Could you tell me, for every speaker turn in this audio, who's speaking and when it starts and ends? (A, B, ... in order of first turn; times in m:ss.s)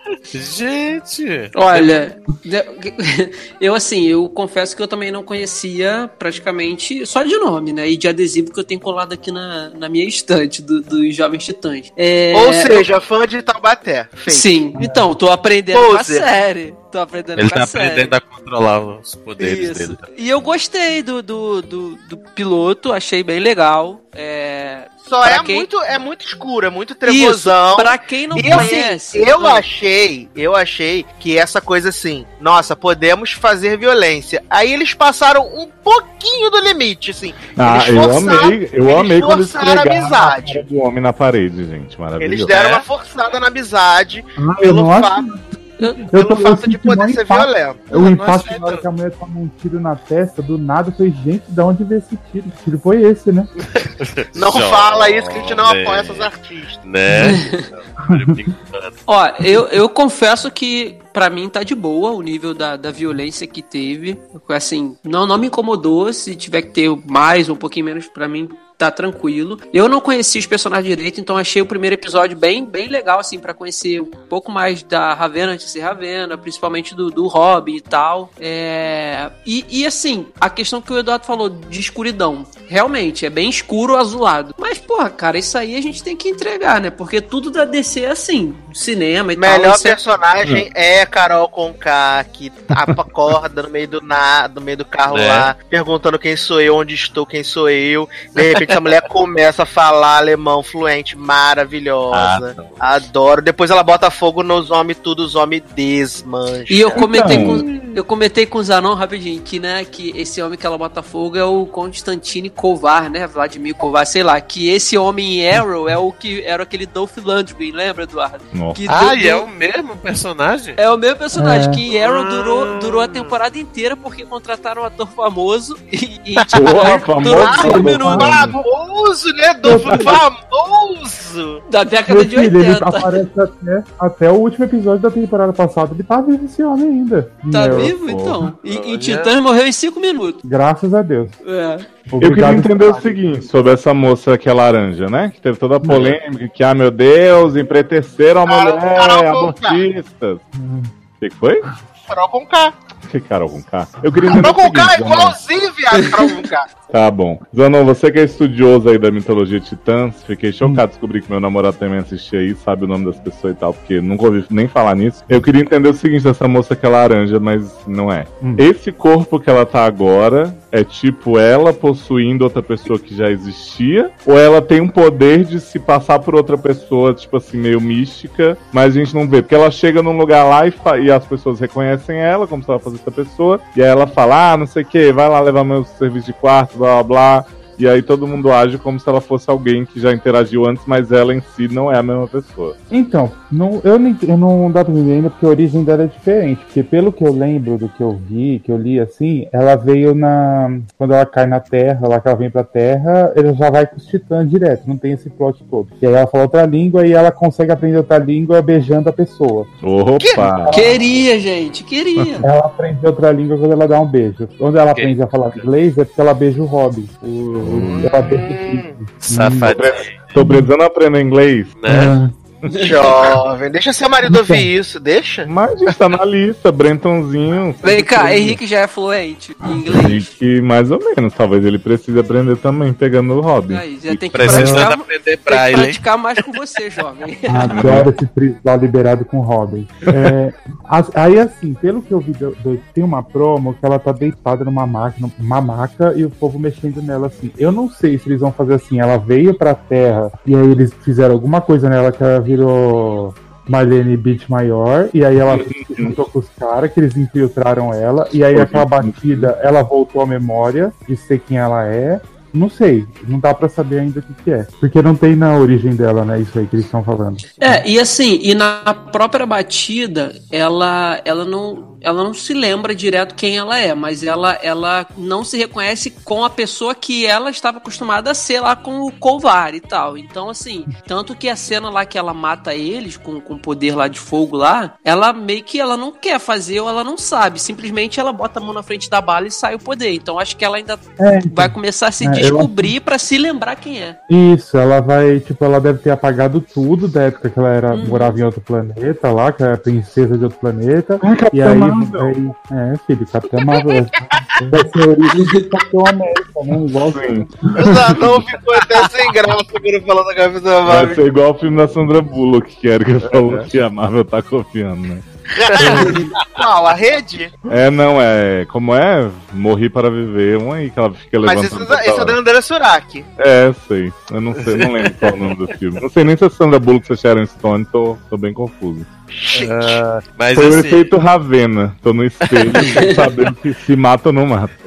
0:00.3-0:01.9 A
0:01.5-0:12.9 B
0:12.3-0:14.7 C
0:14.3-0:18.1 B
0:14.7-0:15.1 D
0:15.7-0:16.3 C
0:17.4-0:20.0 A
0:19.4-0:25.7 B
0:25.0-0:40.6 C
0:27.0-0:29.6 B
0:37.5-0:42.6 E
0:42.2-0:45.2 C
0:42.5-0:42.8 A
0:44.4-0:45.5 D
0:45.8-0:46.0 B
0:46.1-0:53.5 D
0:46.1-0:48.2 C
0:47.9-0:48.9 A
0:53.8-0:56.3 A
0:54.3-0:56.8 C
0:56.8-0:59.0 A
0:57.2-0:57.6 B
0:59.1-1:30.0 B
1:29.4-1:47.0 C
1:35.1-1:35.5 A
1:42.1-1:42.8 A
1:46.7-1:59.4 B
1:47.0-1:47.6 E
1:47.3-1:47.9 D
1:58.5-1:58.8 E
1:58.9-2:00.8 A
2:00.8-2:08.4 B
2:01.4-2:01.8 D
2:01.9-2:03.3 A
2:06.5-2:08.6 E
2:07.2-2:11.6 C
2:07.4-2:08.6 D
2:09.6-2:10.2 D
2:09.8-2:10.1 E
2:11.7-2:13.2 B
2:12.1-2:18.0 D
2:17.5-2:20.4 B
2:17.7-2:18.5 E
2:18.6-2:19.3 A
2:20.4-2:21.4 D
2:21.4-2:21.8 B
2:22.1-2:23.4 D
2:22.2-2:30.4 E
2:28.5-2:29.8 C
2:30.5-2:30.9 D
2:31.2-2:31.6 E
2:32.1-2:32.7 C
2:33.0-2:35.4 E
2:34.3-2:36.7 C
2:36.9-3:12.8 E
3:12.9-3:29.7 D
3:29.8-3:30.8 E
3:30.2-3:30.7 C
3:30.7-3:32.5 B
3:32.4-3:39.7 D
3:34.9-3:35.6 A
3:37.6-3:38.3 E
3:37.8-3:38.9 C
3:39.2-3:40.3 A
3:39.7-3:41.8 E
3:40.4-3:40.7 D
3:41.8-3:42.2 A
3:41.9-3:42.3 D
3:42.8-3:45.5 C
3:44.3-3:44.6 D
3:45.4-3:48.6 E
3:47.8-3:50.3 B
3:49.8-3:53.9 E
3:53.7-3:57.8 B
3:54.3-3:56.4 A
3:54.4-3:54.8 E
3:57.5-4:27.8 D
3:57.7-3:58.1 E
4:15.5-4:16.2 E
4:18.5-4:19.5 E
4:27.6-4:54.2 B
4:51.2-4:52.9 D
4:54.3-5:08.2 D
4:57.9-4:58.4 B
5:01.2-5:02.3 E
5:03.7-5:04.6 C
5:05.3-5:05.6 B
5:07.1-5:07.9 E
5:07.8-5:11.2 C
5:10.8-5:15.2 E
5:15.5-5:17.5 C
5:15.8-5:16.1 E
5:15.8-5:16.2 B
5:17.7-5:22.4 E
5:21.4-5:23.3 C
5:23.4-5:29.1 E
5:24.6-5:25.6 A
5:29.3-5:30.0 C
5:29.5-5:31.1 A
5:30.5-5:34.7 E
5:32.4-5:32.9 A
5:33.0-5:33.2 B